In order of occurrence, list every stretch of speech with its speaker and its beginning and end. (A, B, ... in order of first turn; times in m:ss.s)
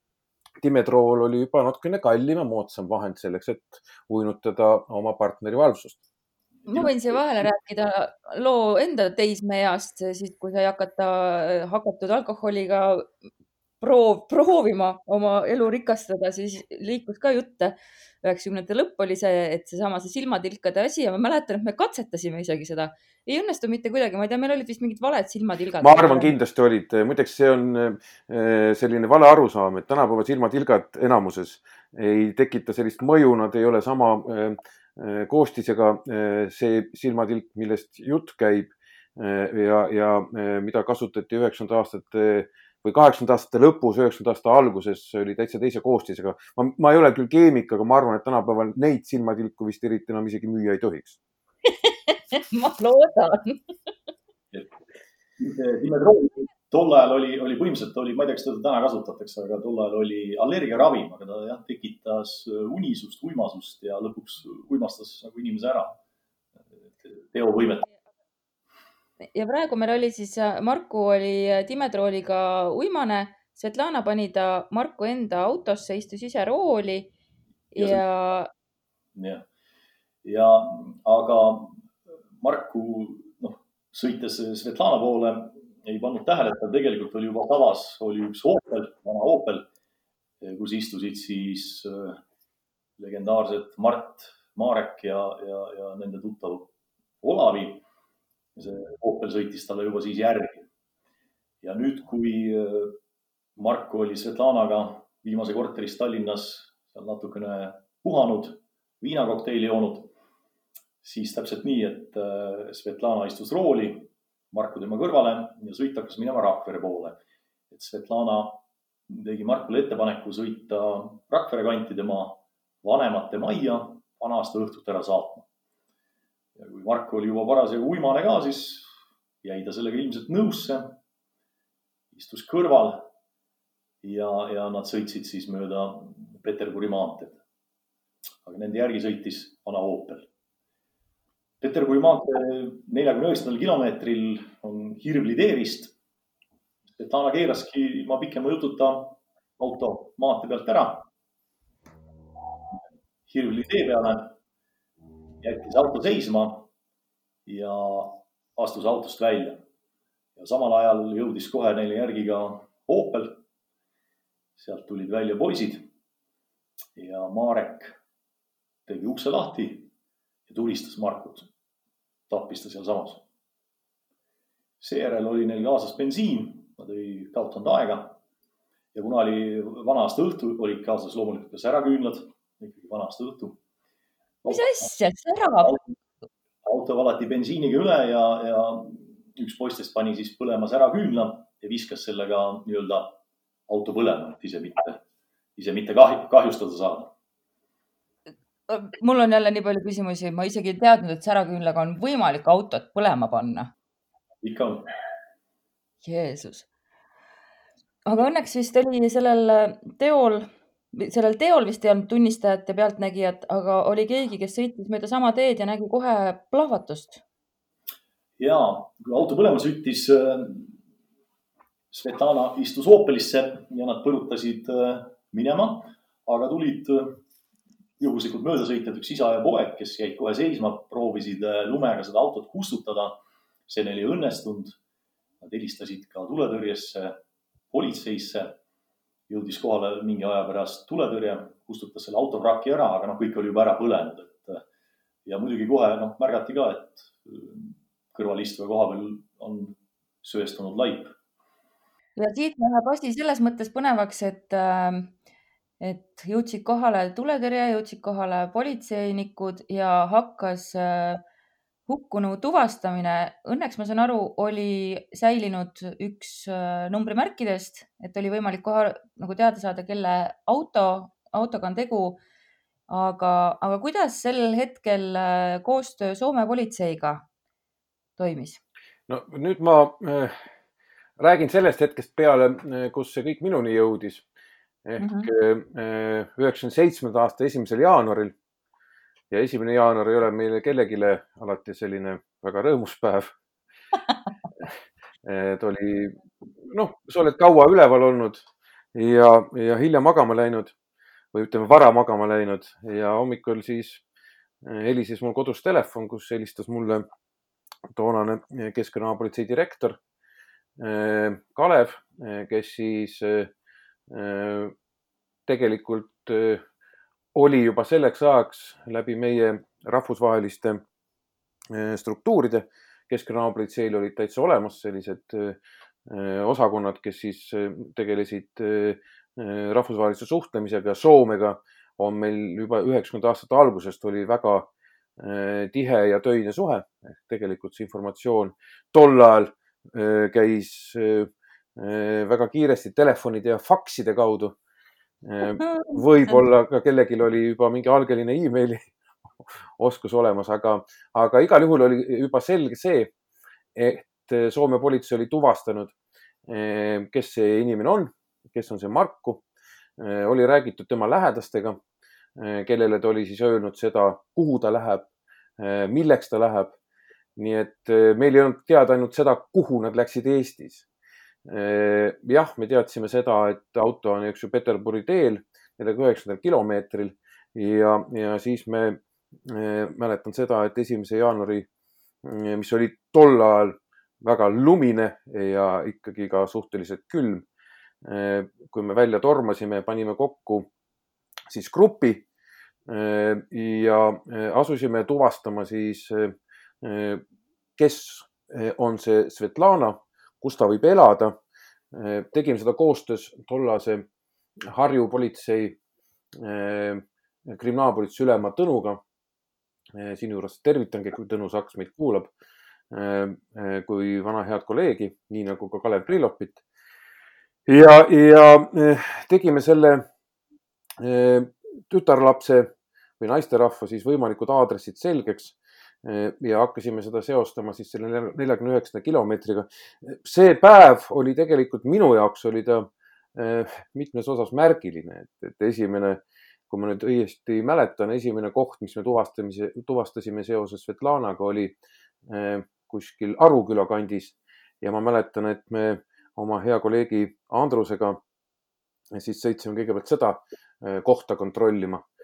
0:00.6-0:06.0 A
0:06.7-0:07.2 B
0:06.7-0:13.1 C
0:13.8-0:26.3 C
0:25.8-0:51.2 A
0:51.8-0:53.6 C
0:55.4-1:06.0 B
1:07.0-1:07.9 B
1:09.3-1:17.1 C
1:17.7-1:18.5 C
1:17.8-1:18.0 B
1:19.1-1:19.4 B
1:20.2-1:21.9 B
1:22.4-1:29.7 B
1:30.4-1:32.2 B
1:33.0-1:36.7 B
1:37.2-1:37.8 B
1:38.6-1:40.7 B
1:41.6-1:43.0 B
1:43.6-1:50.1 B
1:51.0-1:57.2 B
1:57.7-2:05.5 B
2:06.6-2:08.9 B
2:09.4-2:11.0 B
2:12.1-2:13.1 B
2:14.0-2:17.4 B
2:18.4-2:20.3 B
2:21.6-2:25.9 B
2:27.0-2:31.1 B
2:33.3-2:34.4 B
2:35.4-2:36.7 B
2:37.4-2:39.6 B
2:40.4-2:43.4 B
2:44.6-2:45.9 B
2:47.0-2:48.0 B
2:48.9-2:49.9 B
2:50.5-2:51.5 B
2:52.3-2:53.2 B
2:54.8-2:58.2 B
2:58.9-3:03.6 B
3:04.4-3:04.9 B
3:04.5-3:05.8 C
3:05.6-3:05.9 B
3:06.6-3:13.2 B
3:13.7-3:15.0 B
3:15.6-3:17.1 B
3:18.7-3:23.7 C
3:24.4-3:24.9 B
3:26.0-3:26.7 C
3:28.0-3:37.2 C
3:38.4-3:40.8 B
3:41.9-3:47.2 B
3:48.0-3:54.8 B
3:55.4-3:57.2 B
3:57.7-3:58.6 B
3:59.3-4:04.6 B
4:05.2-4:11.1 B
4:12.2-4:15.1 C
4:15.8-4:21.2 C
4:21.9-4:32.2 C
4:32.9-4:37.2 C
4:38.2-4:38.6 C
4:39.1-4:40.3 A
4:41.2-4:44.2 A
4:44.8-4:48.3 A
4:45.0-4:45.3 C
4:49.3-4:53.3 A
4:55.2-4:58.4 A
4:58.9-5:00.7 A
5:01.3-5:04.0 A
5:04.6-5:07.0 A
5:07.9-5:10.0 A
5:10.8-5:13.5 A
5:14.1-5:14.7 A
5:15.5-5:16.6 A
5:17.3-5:20.8 A
5:21.7-5:44.6 A
5:45.2-5:48.9 A
5:45.6-5:46.4 C
5:49.5-5:53.1 A
5:53.7-5:55.9 A
5:56.5-5:59.4 A
6:00.0-6:01.8 A
6:02.4-6:06.8 A
6:07.4-6:10.8 A
6:11.4-6:21.7 A
6:22.2-6:27.4 A
6:28.0-6:30.7 A
6:31.5-6:32.2 A
6:32.9-6:37.2 A
6:37.8-6:41.3 A
6:41.9-6:44.0 A
6:44.6-6:45.8 A
6:46.3-6:49.0 A
6:49.9-6:52.3 A
6:52.9-6:56.6 A
6:57.7-7:00.1 A
7:01.0-7:28.2 A
7:29.1-7:32.0 A